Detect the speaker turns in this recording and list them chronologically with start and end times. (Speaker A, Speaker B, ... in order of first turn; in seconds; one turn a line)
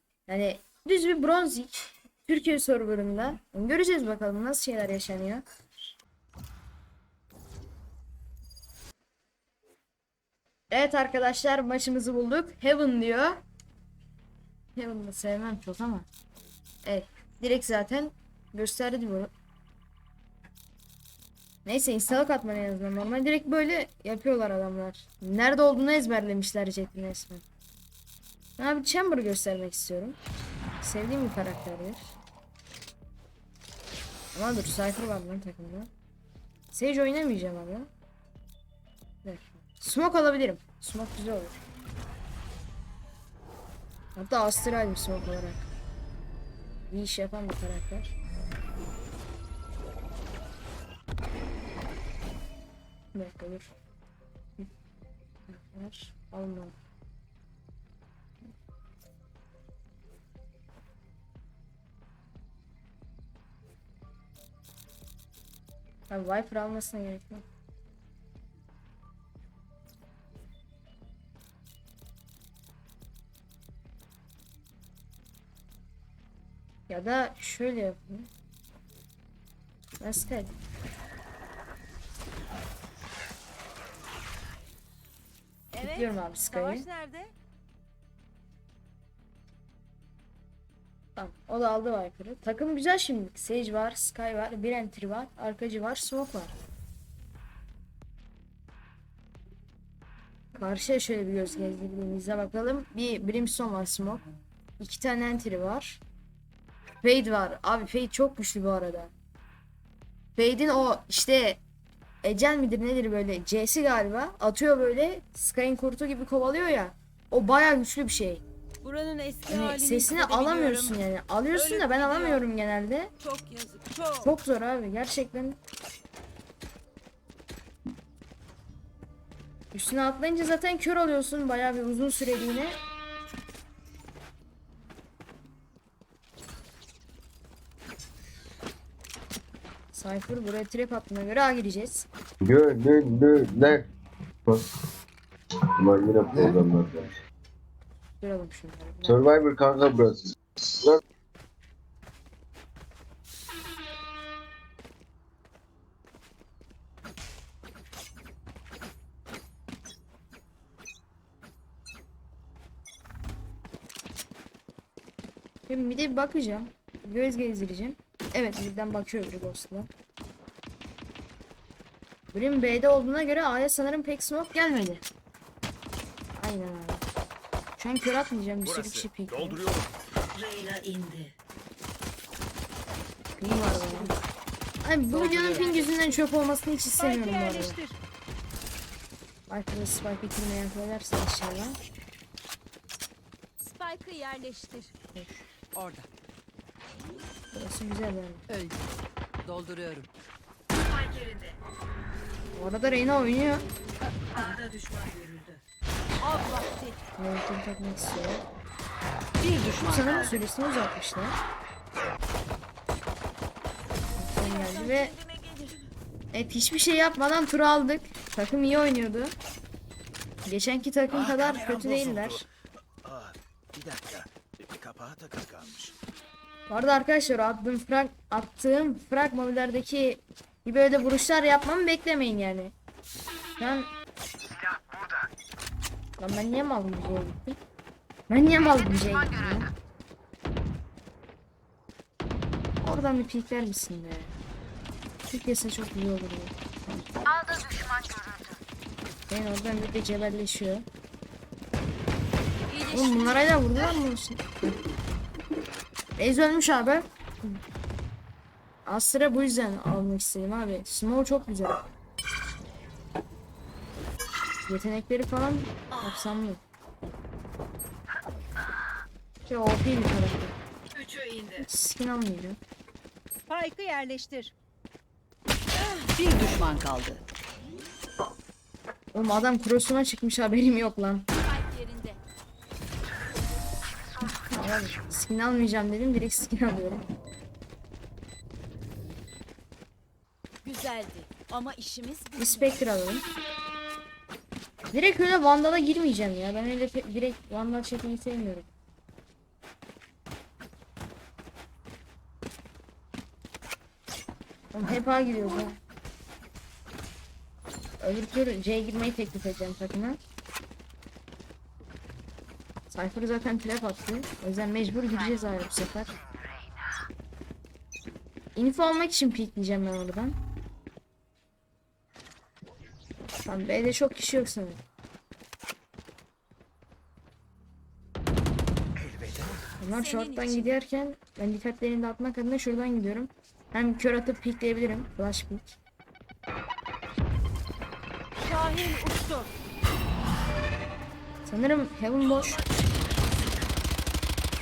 Speaker A: 0.3-5.4
Speaker A: 10.7-13.4
Speaker A: 14.8-16.1
Speaker A: 16.8-19.3
Speaker A: 21.6-27.4
Speaker A: 28.6-30.2
Speaker A: 30.8-32.1
Speaker A: 34.3-35.9
Speaker A: 36.7-37.9
Speaker A: 39.2-41.6
Speaker A: 44.2-45.6
Speaker A: 46.9-48.1
Speaker A: 53.1-53.7
Speaker A: 55.5-56.8
Speaker A: 66.1-67.4
Speaker A: 76.9-78.3
Speaker A: 80.0-80.5
Speaker B: 85.7-87.3
Speaker A: 85.8-86.9
Speaker A: 91.2-96.5
Speaker A: 100.5-104.2
Speaker A: 104.8-106.0
Speaker A: 107.0-109.1
Speaker A: 110.4-111.6
Speaker A: 112.2-118.4
Speaker B: 118.8-121.0
Speaker A: 119.5-123.1
Speaker B: 121.5-122.4
Speaker B: 123.2-124.3
Speaker A: 124.2-125.6
Speaker A: 129.7-132.8
Speaker A: 139.9-142.1
Speaker C: 142.4-143.9
Speaker C: 145.8-147.1
Speaker A: 148.2-149.2
Speaker C: 149.0-151.0
Speaker A: 165.7-169.9
Speaker A: 172.3-175.0
Speaker A: 176.4-177.0
Speaker A: 177.8-179.6
Speaker D: 178.6-179.9
Speaker E: 180.3-181.3
Speaker A: 183.4-184.1
Speaker E: 183.6-184.2
Speaker A: 184.8-187.8
Speaker F: 185.1-185.8
Speaker B: 185.2-186.2
Speaker B: 187.0-188.0
Speaker A: 189.5-191.8
Speaker B: 193.6-194.9
Speaker A: 195.2-195.5
Speaker F: 195.7-196.1
Speaker A: 197.5-198.4
Speaker F: 198.5-198.8
Speaker F: 199.4-200.1
Speaker E: 200.8-201.6
Speaker A: 202.6-203.7
Speaker E: 204.3-205.6
Speaker B: 206.2-207.0
Speaker A: 207.2-208.4
Speaker F: 209.4-210.4
Speaker A: 209.8-211.4
Speaker E: 210.0-210.3
Speaker A: 214.2-215.2
Speaker B: 214.4-215.9
Speaker A: 216.3-219.3
Speaker A: 220.5-222.4
Speaker D: 221.1-222.5
Speaker D: 223.0-225.9
Speaker A: 226.7-232.7
Speaker A: 233.6-233.9
Speaker D: 234.5-235.1
Speaker A: 236.2-237.6
Speaker A: 238.3-239.7
Speaker A: 242.8-244.4
Speaker A: 245.3-246.5
Speaker B: 247.3-248.4
Speaker A: 249.3-250.9
Speaker B: 252.7-253.6
Speaker A: 252.9-254.8
Speaker A: 256.2-257.1
Speaker A: 258.9-261.9
Speaker A: 264.7-266.6
Speaker E: 265.9-266.3
Speaker A: 269.5-270.6
Speaker E: 270.9-271.7
Speaker A: 271.6-272.6
Speaker B: 273.5-274.5
Speaker F: 276.1-277.2
Speaker A: 279.1-281.2
Speaker B: 281.4-282.2
Speaker A: 284.4-287.0
Speaker B: 290.6-292.8
Speaker A: 292.4-293.2
Speaker A: 294.9-298.7
Speaker A: 304.7-305.8
Speaker A: 308.0-310.2
Speaker A: 312.9-316.1
Speaker A: 318.6-320.4
Speaker A: 323.4-324.8
Speaker D: 328.9-329.8
Speaker A: 329.8-335.8
Speaker B: 329.9-330.8
Speaker B: 338.4-339.5
Speaker A: 341.4-342.6
Speaker E: 342.1-343.7